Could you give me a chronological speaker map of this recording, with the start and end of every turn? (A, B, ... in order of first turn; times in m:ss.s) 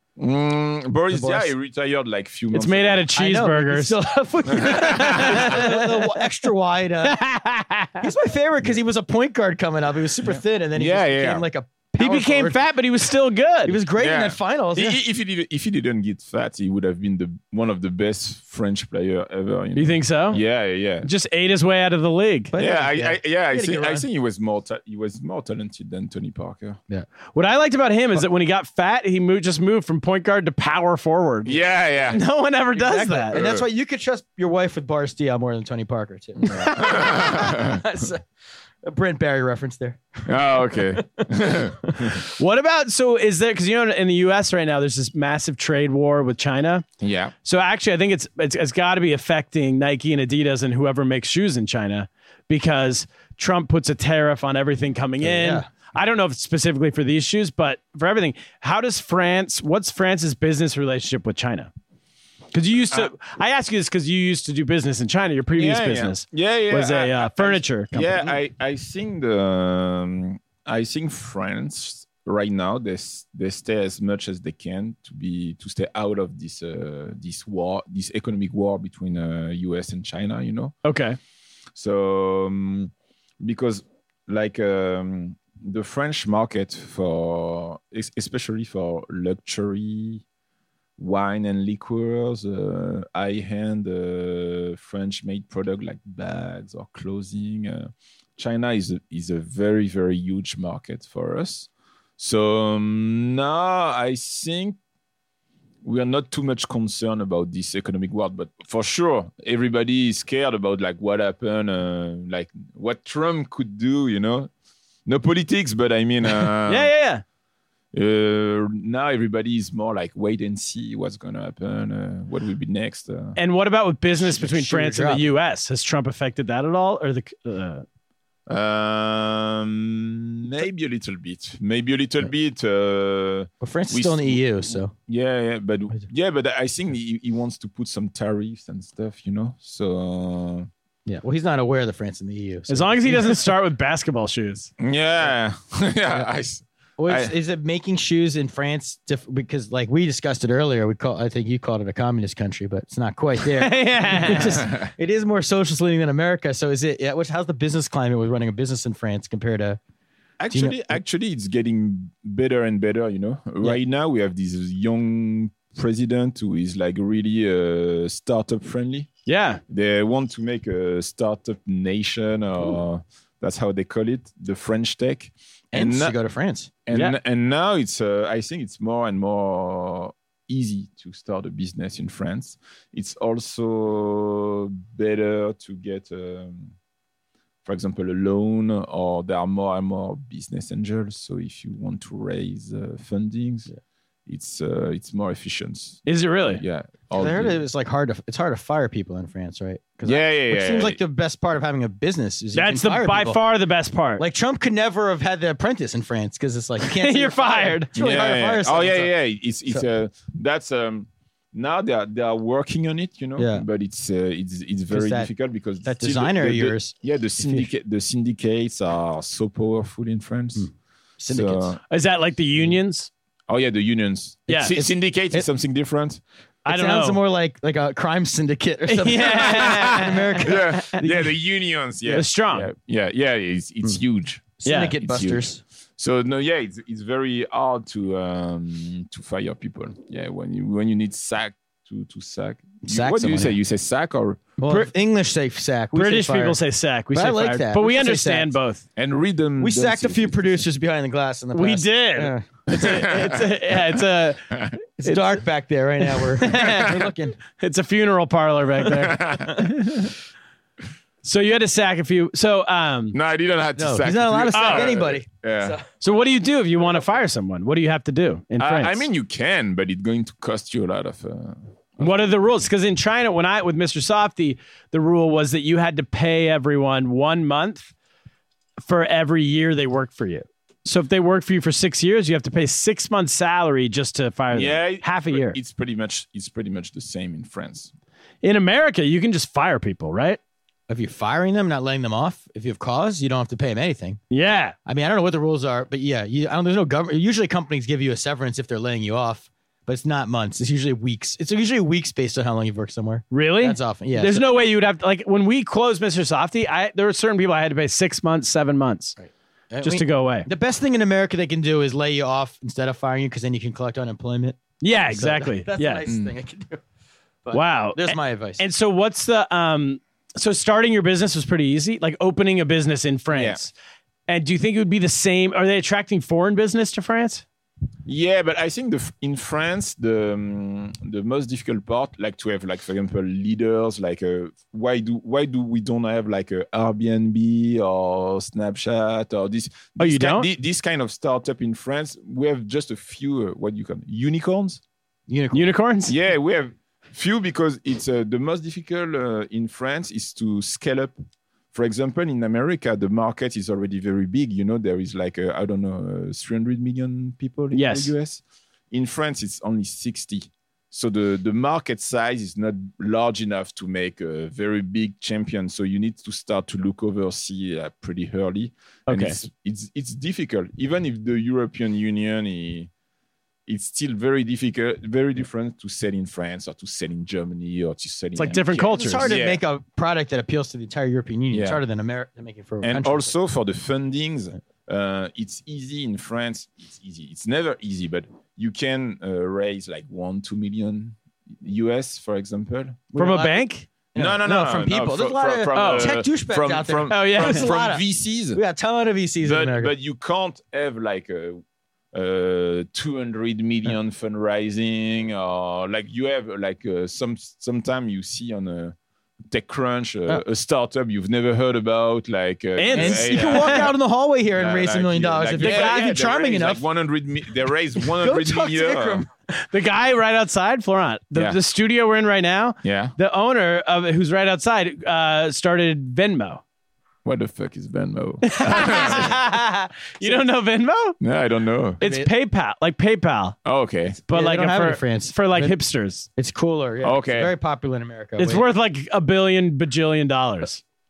0:00.2-0:03.1 A
0:01.1-0:01.5 B
0:02.5-0:04.0 C
0:03.1-0:07.2 B
0:04.5-0:05.5 A
0:04.6-0:05.8 C
0:07.0-0:08.0 C
0:08.0-0:12.6 B
0:10.3-0:11.4 A
0:12.0-0:13.8 C
0:13.6-0:15.0 B
0:14.0-0:21.1 A
0:19.7-0:20.4 C
0:21.0-0:22.5 C
0:22.5-0:24.1 B
0:22.6-0:26.8 A
0:27.3-0:31.6 C
0:31.4-0:32.2 A
0:32.1-0:33.4 C
0:32.7-0:38.2 B
0:33.3-0:33.6 A
0:36.4-0:37.8 A
0:38.8-0:42.1 B
0:40.2-0:42.2 A
0:42.3-0:46.8 C
0:47.0-0:47.3 A
0:47.4-1:01.7 C
0:55.2-0:55.7 B
1:02.5-1:08.3 C
1:05.5-1:20.8 A
1:20.8-1:21.2 C
1:21.7-1:30.2 A
1:31.0-1:44.8 A
1:45.8-1:54.5 A
1:55.0-1:56.9 A
1:56.6-1:57.2 C
1:57.9-2:03.4 A
2:03.4-2:07.8 C
2:04.2-2:05.2 B
2:08.5-2:20.7 A
2:13.6-2:14.9 B
2:21.0-2:23.5 B
2:22.7-2:24.7 C
2:24.8-2:27.3 A
2:27.0-2:39.8 B
2:33.5-2:34.6 C
2:34.4-2:34.9 A
2:40.4-2:49.1 A
2:40.5-2:40.8 B
2:49.3-2:49.6 C
2:49.7-2:56.2 A
2:55.7-2:56.7 B
2:56.8-3:06.7 A
2:56.9-2:57.2 C
3:07.6-3:13.7 A
3:14.3-3:17.6 A
3:16.0-3:16.6 C
3:17.1-3:23.4 B
3:20.0-3:21.0 A
3:22.5-3:24.2 C
3:24.2-3:29.1 B
3:26.8-3:27.9 C
3:27.9-3:40.7 A
3:33.4-3:33.6 B
3:34.9-3:35.3 B
3:35.8-3:37.7 B
3:41.2-3:41.7 B
3:41.2-3:41.8 A
3:41.9-3:43.1 C
3:43.5-3:46.2 A
3:44.5-3:45.5 B
3:46.6-3:47.2 C
3:46.6-3:51.3 B
3:48.9-3:51.0 C
3:49.4-4:04.6 A
3:52.0-3:52.7 C
3:54.6-3:55.6 B
3:54.6-3:55.0 C
4:02.8-4:03.6 B
4:04.6-4:06.6 B
4:05.9-4:08.8 C
4:07.1-4:08.5 B
4:09.0-4:10.6 A
4:09.6-4:12.5 B
4:11.5-4:14.5 C
4:12.7-4:13.4 A
4:14.5-4:14.8 A
4:15.0-4:17.4 B
4:15.0-4:15.3 C
4:16.4-4:20.1 C
4:18.9-4:19.7 A
4:21.2-4:23.2 C
4:23.1-4:25.8 A
4:23.8-4:25.8 B
4:24.5-4:24.9 C
4:26.0-4:29.1 C
4:28.6-4:32.3 A
4:32.0-4:37.9 C
4:38.8-4:45.6 C
4:44.5-4:47.9 A
4:48.4-4:50.4 C
4:50.9-4:54.2 B
4:54.3-4:54.7 C
4:54.8-5:04.4 B
5:03.3-5:09.2 C
5:09.2-5:16.8 B
5:09.8-5:10.5 C
5:14.8-5:16.0 C
5:16.1-5:16.3 A
5:17.4-5:18.6 B
5:17.5-5:23.7 C
5:23.3-5:23.6 A
5:24.3-5:27.4 C
5:28.0-5:44.8 A
5:40.0-5:40.5 C
5:45.3-5:45.7 B
5:45.5-5:46.1 C
5:46.1-5:51.1 A
5:51.7-6:12.9 A
5:57.7-5:58.1 C
6:09.1-6:09.4 C
6:13.7-6:19.6 A
6:18.4-6:19.3 C
6:18.8-6:23.3 B
6:21.5-6:21.8 A
6:22.8-6:33.1 A
6:33.1-6:39.9 B
6:33.2-6:33.9 C
6:34.1-6:38.6 A
6:35.7-6:36.1 C
6:37.1-6:37.7 C
6:39.4-6:41.6 A
6:42.1-6:48.9 A
6:49.5-6:54.0 A
6:52.8-6:53.8 C
6:52.9-6:56.8 B
6:54.5-6:59.2 A
6:55.6-6:56.1 C
6:58.0-6:59.3 B
6:59.5-7:06.6 C
7:02.8-7:03.1 A
7:07.2-7:09.4 A
7:08.4-7:11.2 C
7:11.2-7:12.0 A
7:12.0-7:13.6 C
7:12.0-7:12.3 B
7:13.6-7:14.2 A
7:14.2-7:15.7 B
7:14.3-7:16.3 C
7:16.4-7:18.6 B
7:17.0-7:17.5 A
7:18.4-7:20.8 C